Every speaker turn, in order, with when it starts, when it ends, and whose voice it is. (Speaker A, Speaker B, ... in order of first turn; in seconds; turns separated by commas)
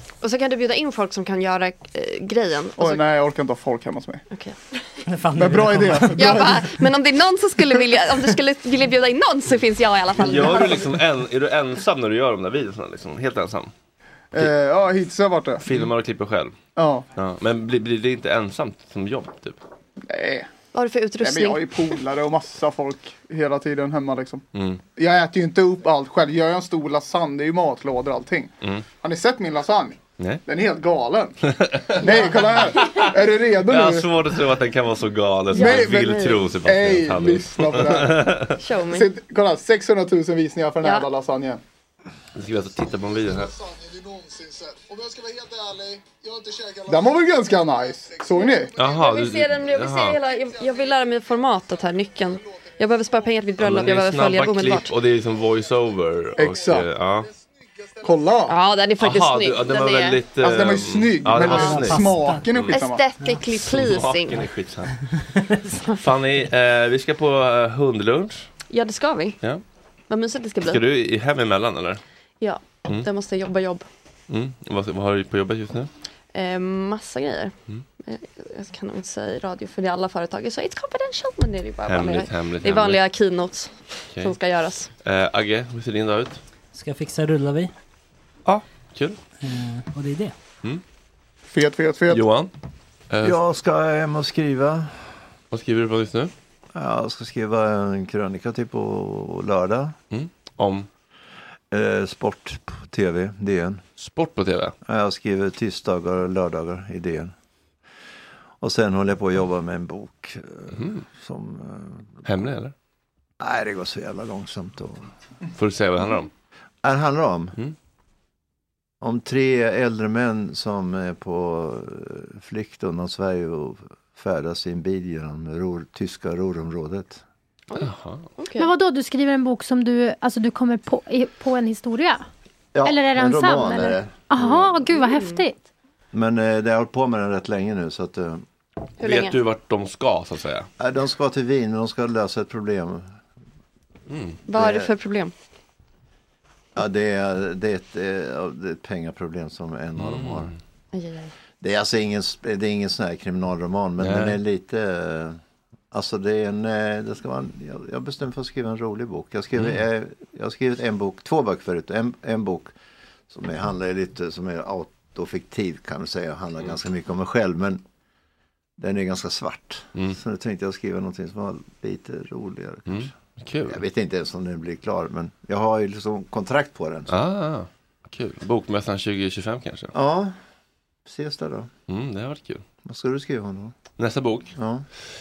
Speaker A: 0.2-3.0, Speaker B: 2.8-4.2, Speaker A: 4.3-4.8, Speaker C: 5.1-6.3, Speaker B: 5.4-6.8, Speaker A: 6.2-10.9, Speaker D: 10.2-13.7, Speaker B: 14.3-15.6, Speaker D: 15.6-16.6, Speaker B: 16.8-17.1, Speaker D: 17.2-19.6, Speaker B: 20.1-20.5, Speaker A: 20.7-22.0, Speaker B: 21.2-24.4, Speaker D: 24.5-24.8, Speaker B: 25.0-31.4, Speaker D: 30.2-30.4, Speaker D: 31.4-33.0, Speaker B: 32.0-34.1, Speaker A: 32.0-33.1, Speaker D: 33.6-38.6, Speaker B: 35.5-38.3, Speaker A: 35.5-36.4, Speaker A: 38.6-39.1, Speaker B: 38.9-41.6, Speaker A: 40.8-41.1, Speaker D: 42.4-43.6, Speaker B: 44.9-45.8, Speaker B: 46.7-48.7, Speaker D: 48.8-50.2, Speaker A: 48.9-54.9, Speaker D: 53.6-57.3, Speaker B: 56.4-56.9, Speaker B: 58.0-58.5, Speaker A: 58.5-60.2, Speaker D: 59.0-62.8, Speaker B: 60.4-63.1, Speaker A: 61.4-62.1, Speaker C: 61.5-62.4, Speaker A: 62.7-64.5, Speaker D: 63.5-65.2, Speaker C: 65.2-65.7, Speaker D: 66.0-68.5, Speaker A: 68.7-69.4, Speaker A: 70.1-70.8, Speaker D: 70.7-72.0, Speaker A: 72.4-73.9, Speaker D: 74.3-75.9, Speaker A: 76.3-84.9, Speaker D: 81.9-83.0, Speaker D: 85.0-86.4, Speaker C: 86.7-87.7, Speaker D: 88.5-89.2, Speaker C: 89.4-90.3, Speaker B: 91.5-92.2, Speaker D: 92.1-92.5, Speaker D: 93.1-93.4, Speaker E: 93.2-95.0, Speaker D: 95.5-96.3, Speaker E: 96.7-100.0, Speaker D: 100.1-100.9, Speaker E: 101.7-103.8, Speaker D: 104.0-104.7, Speaker E: 104.9-107.3, Speaker E: 108.6-112.2, Speaker D: 110.7-111.0, Speaker D: 112.2-112.7, Speaker E: 113.4-115.1, Speaker D: 115.6-116.3, Speaker E: 116.8-117.6, Speaker E: 119.0-127.2, Speaker D: 127.8-128.2, Speaker A: 128.4-128.7, Speaker F: 128.6-132.3, Speaker E: 132.7-135.0, Speaker F: 132.8-135.6, Speaker A: 134.9-135.4, Speaker E: 136.1-138.4, Speaker A: 139.0-139.4, Speaker D: 139.0-140.7, Speaker E: 140.8-143.2, Speaker D: 144.1-144.4, Speaker A: 144.5-145.3, Speaker E: 144.5-144.9, Speaker E: 146.8-150.5, Speaker D: 150.0-150.6, Speaker A: 150.9-151.3, Speaker E: 151.6-155.4, Speaker D: 154.0-154.4, Speaker E: 155.9-162.7, Speaker E: 163.3-167.8, Speaker E: 168.8-173.1, Speaker D: 172.9-173.8, Speaker E: 173.7-177.1, Speaker D: 177.1-179.9, Speaker E: 179.9-180.3, Speaker E: 181.1-181.7, Speaker D: 181.9-182.6, Speaker E: 182.8-183.8, Speaker D: 184.0-184.5, Speaker E: 184.6-184.8